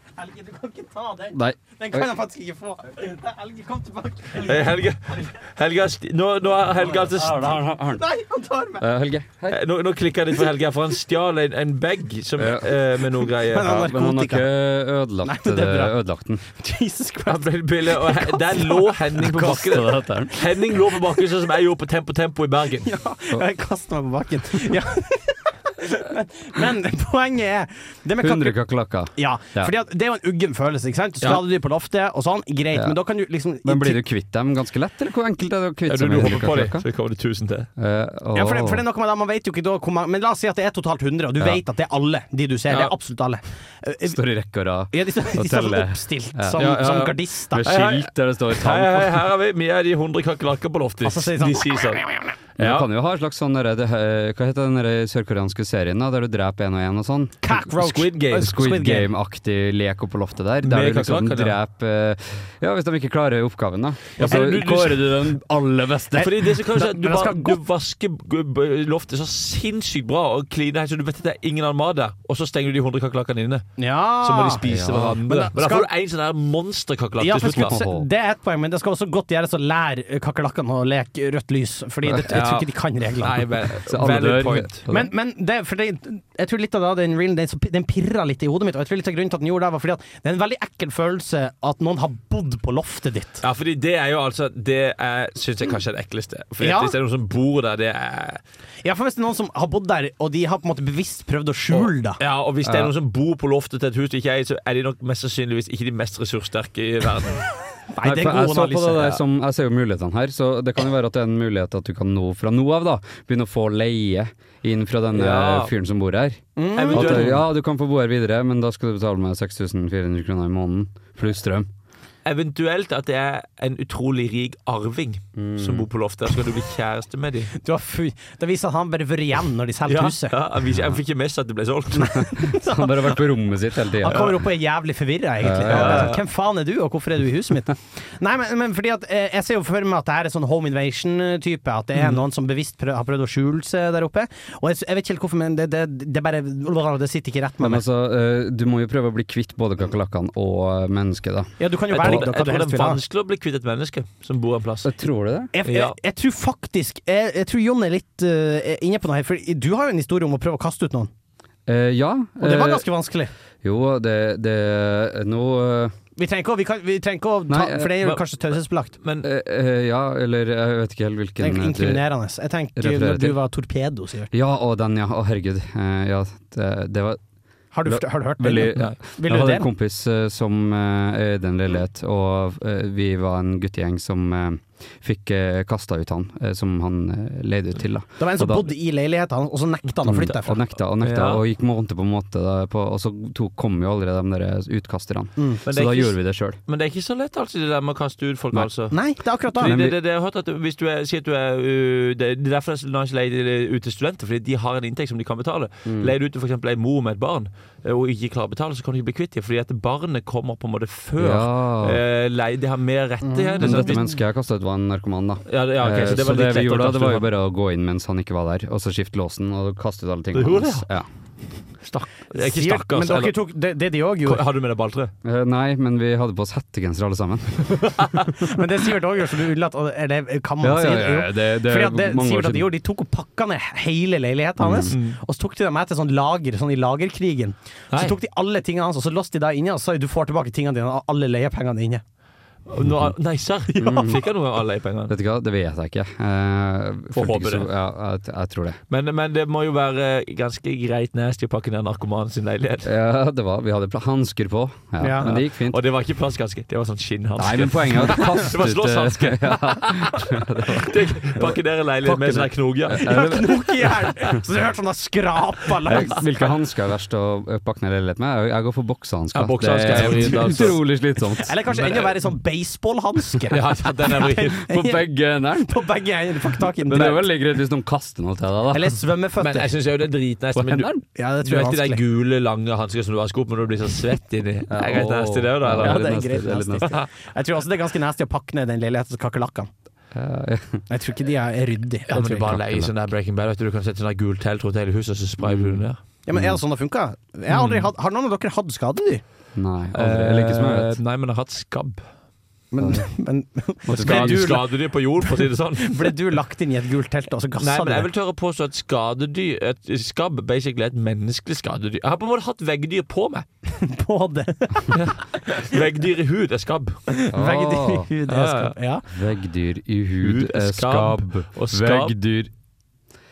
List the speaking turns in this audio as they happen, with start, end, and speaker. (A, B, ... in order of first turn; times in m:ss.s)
0:00.2-0:05.3 A
0:01.3-0:02.1 B
0:04.4-0:07.5 C
0:07.1-0:08.0 B
0:07.9-0:08.8 A
0:08.8-0:09.5 B
0:09.5-0:13.8 C
0:12.4-0:12.7 B
0:13.5-0:14.4 A
0:13.5-0:16.4 B
0:15.2-0:15.9 A
0:16.5-0:19.6 A
0:17.3-0:22.9 C
0:19.2-0:20.4 B
0:22.8-0:28.6 A
0:28.2-0:29.7 B
0:29.1-0:34.0 A
0:33.6-0:36.8 B
0:35.9-0:37.7 C
0:37.8-0:38.8 B
0:38.3-0:44.2 A
0:42.7-0:42.9 C
0:44.0-0:46.7 B
0:44.9-0:47.7 A
0:46.6-0:52.0 C
0:47.5-0:49.2 B
0:51.0-0:52.3 A
0:52.6-0:52.9 C
0:52.6-0:57.6 B
0:57.4-0:59.1 A
0:57.7-0:58.5 C
0:58.4-1:06.4 B
1:00.6-1:01.5 C
1:04.2-1:05.0 C
1:06.2-1:13.7 C
1:06.7-1:07.6 A
1:13.8-1:14.6 A
1:14.2-1:17.7 C
1:14.6-1:15.2 B
1:15.2-1:15.9 A
1:17.2-1:23.4 A
1:17.6-1:18.1 B
1:22.3-1:22.7 C
1:23.2-1:24.8 C
1:23.9-1:25.1 B
1:24.9-1:33.4 A
1:33.4-1:38.4 C
1:36.6-1:36.9 A
1:38.8-1:42.2 A
1:41.7-1:47.4 C
1:42.6-1:42.9 B
1:47.9-1:49.2 A
1:48.0-2:01.7 B
1:55.1-1:55.7 C
1:56.6-1:57.4 A
1:56.7-1:57.4 C
2:02.2-2:07.5 C
2:05.4-2:05.9 B
2:07.6-2:10.4 A
2:09.9-2:12.4 C
2:10.7-2:11.0 B
2:12.2-2:13.2 A
2:12.4-2:14.4 B
2:14.0-2:27.8 A
2:15.4-2:16.2 B
2:15.7-2:16.2 C
2:27.6-2:32.2 B
2:31.6-2:33.0 A
2:31.9-2:34.9 C
2:34.8-2:35.5 B
2:35.5-2:41.1 A
2:35.6-2:35.9 C
2:41.6-2:42.8 B
2:42.4-2:43.3 A
2:43.6-2:45.9 B
2:46.2-2:48.9 A
2:47.5-2:48.0 B
2:49.0-2:49.3 C
2:49.2-2:52.0 B
2:51.4-2:54.3 A
2:52.8-2:53.4 B
2:54.3-2:57.2 B
2:57.7-2:59.7 A
2:57.8-3:08.7 B
3:08.2-3:10.6 A
3:10.0-3:16.6 B
3:11.0-3:11.4 C
3:15.7-3:19.0 C
3:18.9-3:19.7 A
3:19.5-3:34.0 C
3:19.6-3:20.0 B
3:25.8-3:26.1 B
3:31.2-3:32.0 B
3:33.2-3:33.8 A
3:33.6-3:41.1 B
3:35.5-3:37.3 C
3:40.3-3:40.9 C
3:41.8-3:43.3 C
3:42.4-3:44.4 A
3:44.2-3:45.1 C
3:45.2-3:48.0 B
3:48.0-3:48.2 C
3:48.4-4:02.0 A
3:50.6-3:52.7 B
3:54.6-3:55.0 B
3:54.9-3:55.2 C
4:02.7-4:05.1 C
4:03.8-4:04.2 B
4:05.1-4:08.8 B
4:07.1-4:07.7 C
4:08.9-4:12.9 C
4:12.8-4:15.8 B
4:15.0-4:15.3 A
4:15.2-4:20.1 C
4:17.4-4:23.7 B
4:20.7-4:23.1 C
4:22.9-4:26.2 A
4:25.8-4:31.6 B
4:29.3-4:30.8 C
4:31.4-4:35.0 A
4:31.7-4:32.1 C
4:33.5-4:34.6 C
4:34.4-4:35.8 B
4:35.7-4:37.2 A
4:36.8-4:39.0 B
4:38.7-4:39.7 A
4:39.4-4:46.1 C
4:40.6-4:41.0 B
4:41.1-4:42.0 A
4:44.7-4:47.0 B
4:45.7-4:49.7 A
4:50.1-4:50.8 B
4:50.9-4:52.5 A
4:52.1-4:56.0 C
4:52.3-4:52.9 B
4:55.4-4:55.8 B
4:56.2-4:59.2 A
4:56.3-4:56.6 B
4:57.5-4:57.8 C
4:59.6-5:01.0 B
4:59.9-5:02.0 C
5:02.7-5:04.7 A
5:02.8-5:03.1 B
5:03.9-5:04.5 B
5:03.9-5:06.2 C
5:05.8-5:08.1 A
5:07.6-5:13.4 C
5:13.7-5:15.0 A
5:14.9-5:17.0 C
5:17.1-5:19.0 A
5:17.3-5:18.1 B
5:18.3-5:18.8 C
5:19.1-5:22.5 B
5:20.2-5:22.1 C